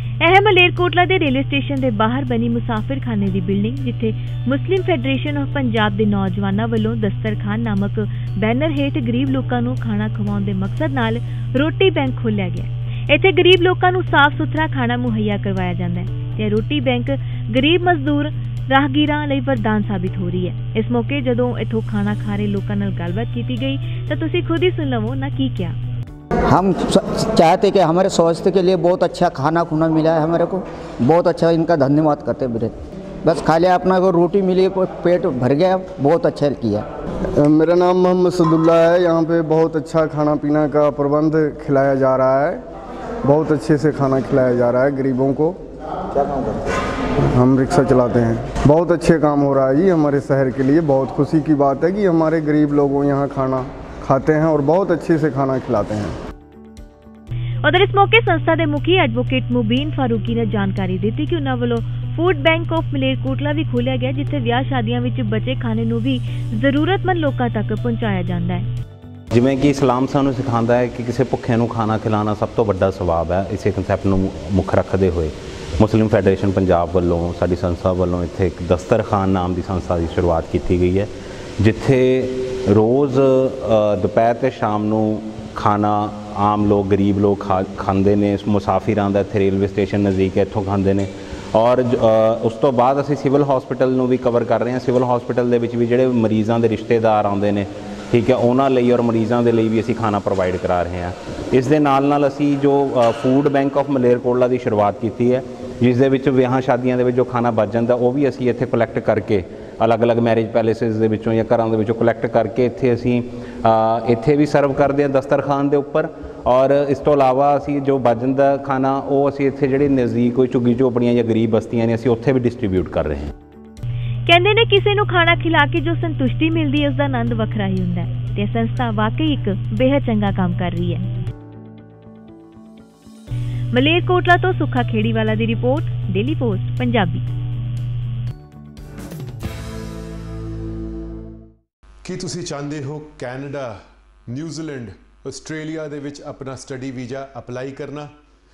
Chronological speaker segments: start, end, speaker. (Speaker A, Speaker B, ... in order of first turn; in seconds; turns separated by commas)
Speaker A: 0.2-25.8, Speaker B: 26.5-36.9, Speaker C: 37.4-42.6, Speaker C: 43.2-45.6, Speaker C: 47.4-56.1, Speaker A: 57.6-68.7, Speaker D: 69.3-123.3, Speaker A: 124.3-131.1, Speaker A: 133.7-137.2, Speaker E: 142.0-143.8, Speaker E: 144.3-148.1